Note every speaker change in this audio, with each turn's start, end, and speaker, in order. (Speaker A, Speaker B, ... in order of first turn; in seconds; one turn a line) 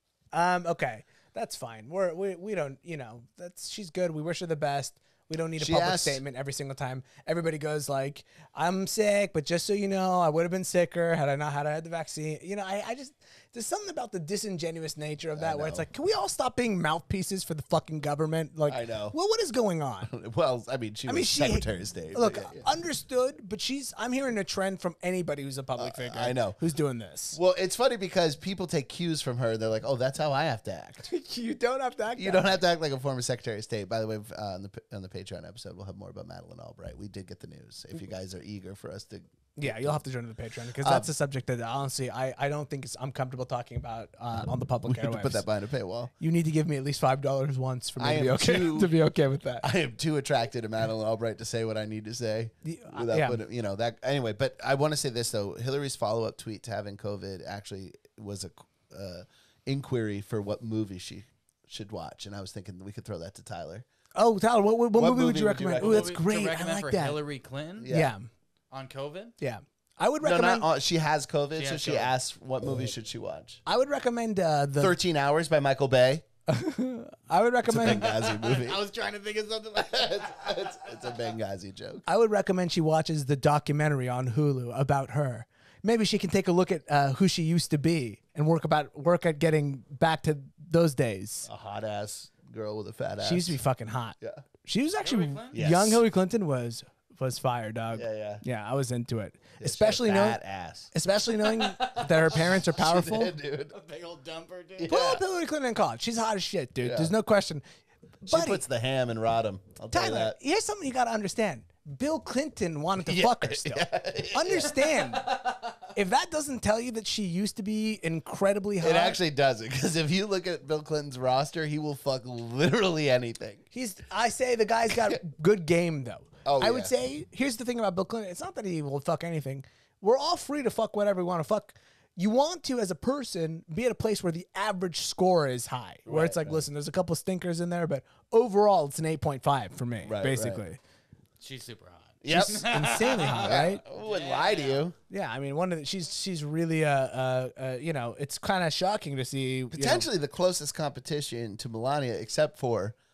Speaker A: 0.3-20.1
Speaker B: 5.6-6.2
Speaker B: 15.3-15.8
Speaker B: 18.7-19.1
Speaker B: 20.1-22.7
Speaker A: 21.1-27.4
Speaker B: 25.8-26.6
Speaker B: 27.3-31.1
Speaker A: 31.1-32.6
Speaker B: 32.2-40.0
Speaker A: 39.5-45.4
Speaker B: 40.8-41.1
Speaker B: 44.9-46.1
Speaker A: 46.2-49.6
Speaker B: 48.0-48.9
Speaker B: 49.6-63.8
Speaker A: 52.6-53.4
Speaker A: 64.1-67.2
Speaker B: 64.9-66.2
Speaker C: 65.8-67.9
Speaker B: 67.8-68.1
Speaker A: 67.9-68.3
Speaker C: 68.7-69.3
Speaker A: 69.4-70.7
Speaker B: 70.2-73.6
Speaker C: 71.6-72.1
Speaker A: 73.7-74.9
Speaker B: 74.8-76.2
Speaker A: 76.5-78.0
Speaker B: 77.7-78.8
Speaker C: 78.0-80.8
Speaker B: 79.9-82.0
Speaker A: 82.0-91.5
Speaker B: 91.5-93.6
Speaker A: 93.2-100.4
Speaker C: 95.0-95.6
Speaker B: 95.5-96.0
Speaker B: 97.9-98.4
Speaker B: 99.6-100.9
Speaker A: 100.9-103.3
Speaker C: 101.6-102.2
Speaker B: 102.3-103.8
Speaker C: 103.7-104.9
Speaker B: 104.8-105.2
Speaker A: 104.9-107.6
Speaker B: 106.8-107.1
Speaker A: 108.2-108.6
Speaker B: 108.3-110.4
Speaker A: 109.9-115.3
Speaker B: 113.0-114.8
Speaker A: 115.9-119.2
Speaker B: 118.8-123.6
Speaker A: 123.7-140.8
Speaker B: 124.9-125.2
Speaker B: 126.4-126.9
Speaker B: 136.1-136.6
Speaker B: 140.0-140.6
Speaker C: 141.4-144.8
Speaker B: 142.2-142.7
Speaker A: 142.3-143.8
Speaker B: 143.3-144.9
Speaker A: 145.1-150.1
Speaker B: 149.7-152.9